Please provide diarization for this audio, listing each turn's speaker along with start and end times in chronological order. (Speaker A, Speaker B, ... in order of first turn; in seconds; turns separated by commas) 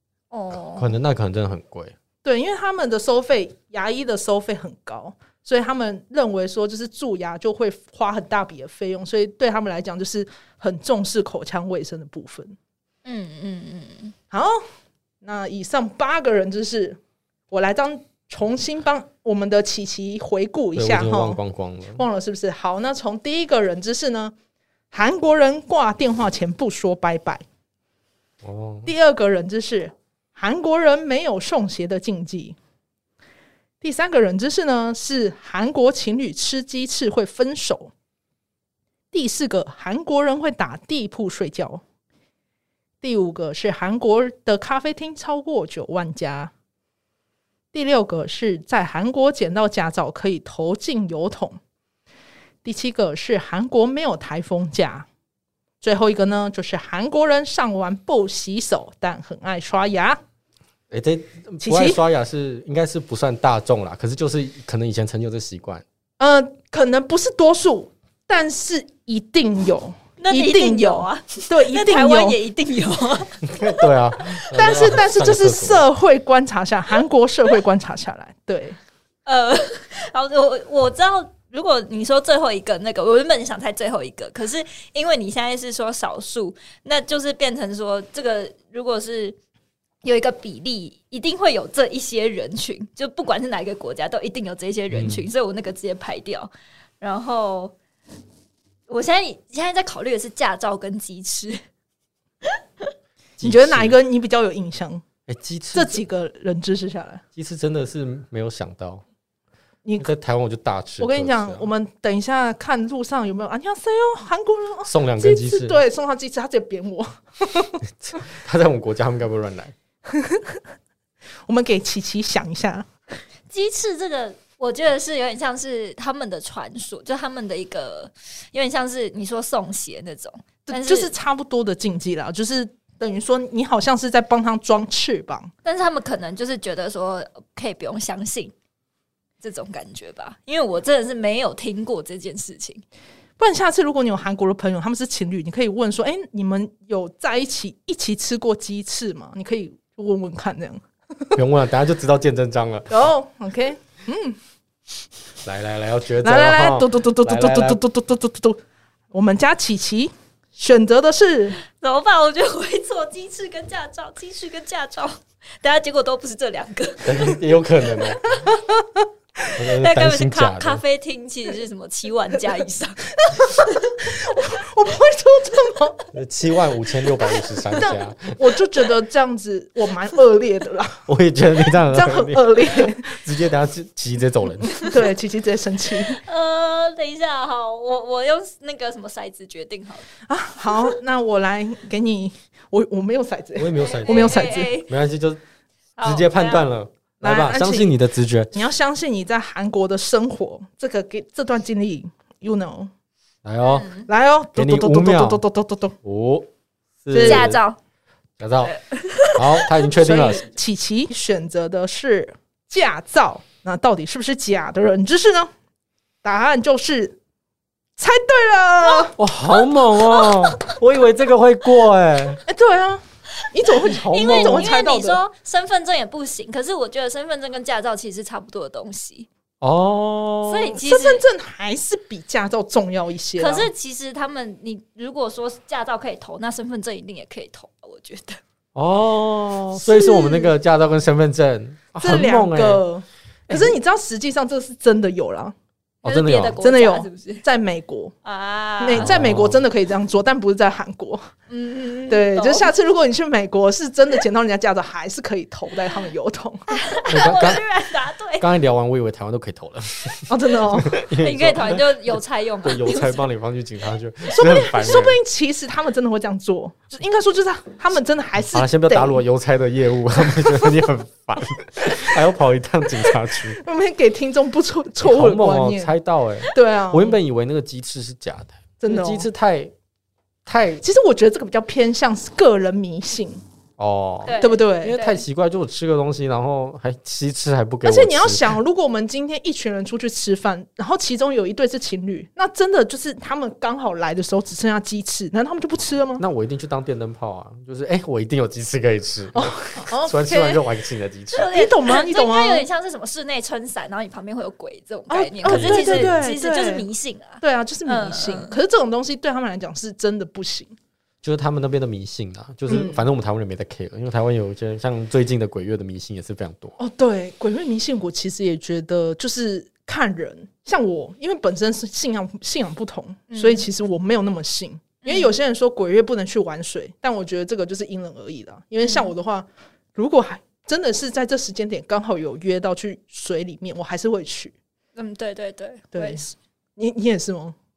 Speaker A: 0.3-1.0, Speaker B: 0.7-1.9, Speaker C: 2.2-12.6, Speaker A: 13.1-14.1, Speaker C: 14.3-14.6, Speaker C: 15.2-17.0, Speaker C: 17.5-21.4, Speaker B: 20.7-22.0, Speaker C: 21.9-24.3, Speaker C: 24.9-27.4, Speaker B: 28.4-28.9, Speaker C: 28.8-32.5, Speaker C: 33.8-37.9, Speaker C: 39.1-41.8, Speaker C: 43.0-46.5, Speaker C: 47.7-51.6, Speaker C: 52.6-55.1, Speaker C: 55.8-60.2, Speaker B: 60.9-65.8, Speaker C: 61.6-62.0, Speaker C: 66.2-72.4, Speaker A: 70.2-74.4, Speaker B: 73.4-75.8, Speaker C: 74.5-78.8, Speaker A: 79.2-89.4, Speaker A: 90.0-97.7, Speaker B: 94.9-95.2, Speaker A: 98.9-101.6, Speaker A: 102.4-102.9, Speaker B: 103.4-104.0, Speaker C: 103.4-105.0, Speaker B: 105.3-106.0, Speaker C: 105.7-107.2, Speaker B: 107.3-109.0, Speaker B: 110.0-111.7, Speaker C: 111.0-117.8, Speaker B: 114.8-115.8, Speaker B: 118.0-119.7, Speaker C: 120.1-120.6, Speaker C: 121.5-122.9, Speaker A: 123.5-131.1, Speaker C: 130.7-135.5, Speaker A: 135.6-138.5, Speaker A: 139.4-142.8, Speaker C: 143.4-151.4, Speaker B: 151.3-153.0, Speaker C: 152.9-154.4, Speaker B: 155.4-157.8, Speaker C: 156.2-158.6, Speaker C: 159.1-161.6, Speaker A: 161.7-167.3, Speaker B: 167.0-168.2, Speaker C: 168.4-169.0, Speaker B: 169.5-170.8, Speaker A: 169.8-173.9, Speaker C: 173.2-176.1, Speaker B: 176.1-178.6, Speaker C: 177.7-181.1, Speaker B: 181.1-184.8, Speaker C: 181.8-183.2, Speaker C: 184.8-186.2, Speaker A: 186.1-190.0, Speaker C: 190.3-194.8, Speaker B: 193.6-195.4, Speaker A: 193.9-194.9, Speaker A: 196.0-196.7, Speaker B: 196.0-198.5, Speaker C: 197.2-197.9, Speaker C: 198.5-202.9, Speaker B: 203.4-203.9, Speaker A: 203.7-204.1, Speaker C: 204.1-205.9, Speaker B: 204.5-205.4, Speaker B: 206.0-206.5, Speaker B: 207.0-207.6, Speaker C: 207.1-207.5, Speaker A: 207.1-207.8, Speaker B: 208.4-208.7, Speaker A: 208.6-209.8, Speaker B: 209.3-210.4, Speaker C: 209.9-215.5, Speaker C: 216.2-217.2, Speaker C: 218.0-219.2, Speaker A: 218.8-220.7, Speaker B: 219.2-222.4, Speaker C: 222.5-225.2, Speaker A: 223.9-229.3, Speaker B: 223.9-224.7, Speaker B: 229.6-230.8, Speaker A: 230.4-231.2, Speaker C: 230.8-233.7, Speaker A: 233.4-238.4, Speaker B: 238.7-242.8, Speaker C: 239.7-240.5, Speaker C: 242.0-245.5, Speaker B: 243.5-243.8, Speaker B: 246.0-246.6, Speaker A: 246.0-247.4, Speaker C: 246.6-248.1, Speaker A: 248.2-249.1, Speaker C: 248.8-251.3, Speaker B: 249.0-249.7, Speaker A: 251.5-252.7, Speaker C: 252.1-256.7, Speaker A: 256.7-258.5, Speaker B: 257.1-257.6, Speaker B: 258.4-265.2, Speaker C: 260.3-260.9, Speaker A: 261.2-263.2, Speaker C: 264.3-269.2, Speaker B: 268.5-273.6, Speaker C: 270.3-270.8, Speaker C: 273.6-275.9, Speaker B: 275.0-279.7, Speaker C: 276.5-277.2, Speaker C: 278.8-279.2, Speaker B: 280.4-280.8, Speaker C: 280.8-283.4, Speaker B: 283.8-288.6, Speaker A: 284.2-285.2, Speaker C: 284.4-285.0, Speaker C: 287.8-296.2, Speaker B: 296.2-301.5, Speaker C: 299.3-300.7, Speaker A: 301.3-308.6, Speaker C: 301.3-302.6, Speaker C: 305.1-306.9, Speaker B: 305.4-306.3, Speaker C: 307.4-310.7, Speaker B: 311.2-316.7, Speaker C: 312.7-313.0, Speaker C: 316.8-334.5, Speaker A: 323.3-323.7, Speaker A: 325.0-325.3, Speaker A: 328.8-329.1, Speaker A: 334.9-336.2, Speaker C: 335.9-337.6